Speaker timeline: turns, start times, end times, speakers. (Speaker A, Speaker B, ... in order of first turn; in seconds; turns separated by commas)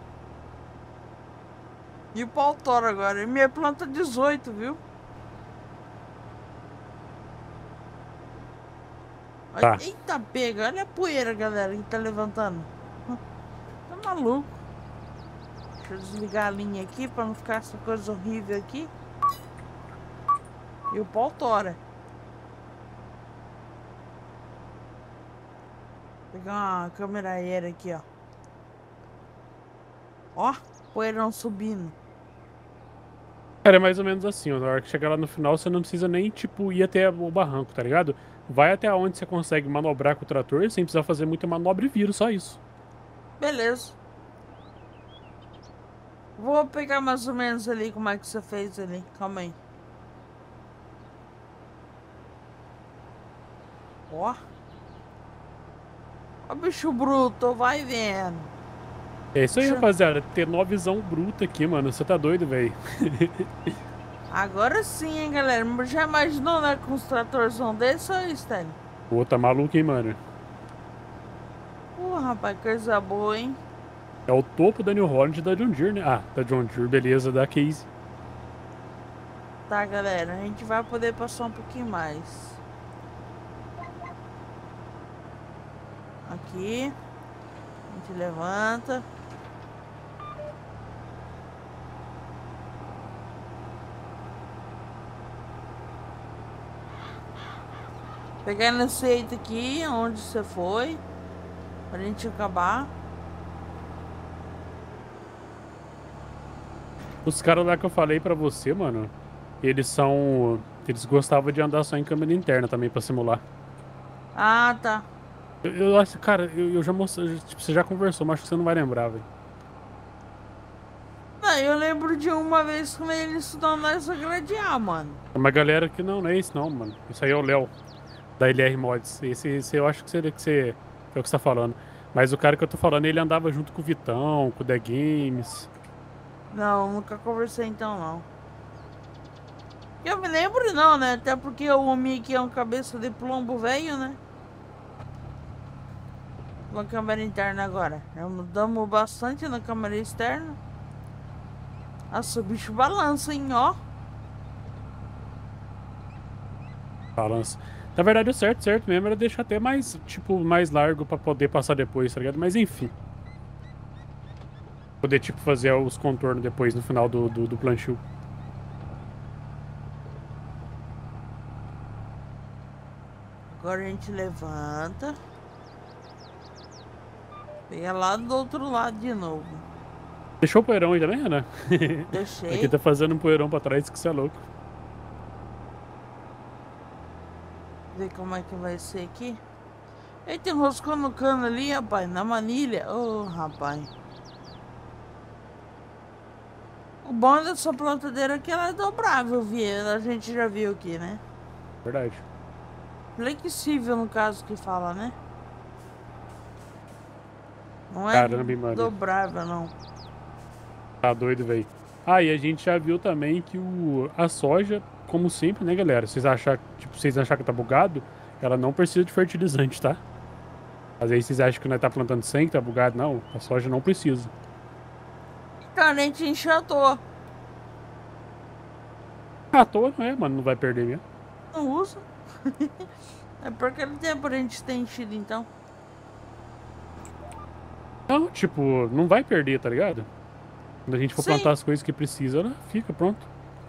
Speaker A: 2.1-4.8, Speaker A: 9.5-13.2, Speaker A: 13.9-14.6, Speaker A: 15.8-18.9, Speaker A: 20.9-21.8, Speaker A: 26.3-28.0, Speaker A: 30.3-31.9, Speaker B: 33.6-42.6, Speaker A: 43.4-44.0, Speaker A: 46.4-49.6, Speaker A: 54.1-54.4, Speaker A: 56.5-58.5, Speaker B: 59.3-63.7, Speaker A: 59.5-59.8, Speaker A: 64.3-68.8, Speaker B: 69.1-70.2, Speaker A: 72.0-73.6, Speaker B: 74.3-77.9, Speaker A: 79.7-82.6, Speaker A: 86.2-86.9, Speaker A: 87.9-89.0, Speaker A: 98.4-101.0, Speaker A: 101.9-102.9, Speaker B: 107.2-113.4, Speaker A: 114.3-115.0, Speaker B: 115.6-119.2, Speaker A: 121.4-125.2, Speaker B: 125.3-127.7, Speaker B: 128.4-135.7, Speaker A: 136.5-138.3, Speaker A: 140.0-144.2, Speaker A: 146.7-150.6, Speaker A: 152.1-153.8, Speaker B: 157.2-162.9, Speaker B: 165.0-168.0, Speaker A: 173.5-175.2, Speaker A: 177.7-179.6, Speaker B: 180.4-184.4, Speaker A: 182.1-182.7, Speaker A: 187.9-189.4, Speaker A: 190.2-193.9, Speaker A: 197.0-201.2, Speaker B: 201.8-202.2, Speaker A: 203.2-205.2, Speaker A: 207.9-209.7, Speaker B: 208.1-208.9, Speaker B: 211.0-220.0, Speaker B: 221.0-224.3, Speaker A: 225.7-227.0, Speaker B: 229.5-231.0, Speaker A: 231.5-232.9, Speaker A: 233.4-235.5, Speaker B: 238.1-240.1, Speaker B: 240.9-243.2, Speaker A: 241.2-241.5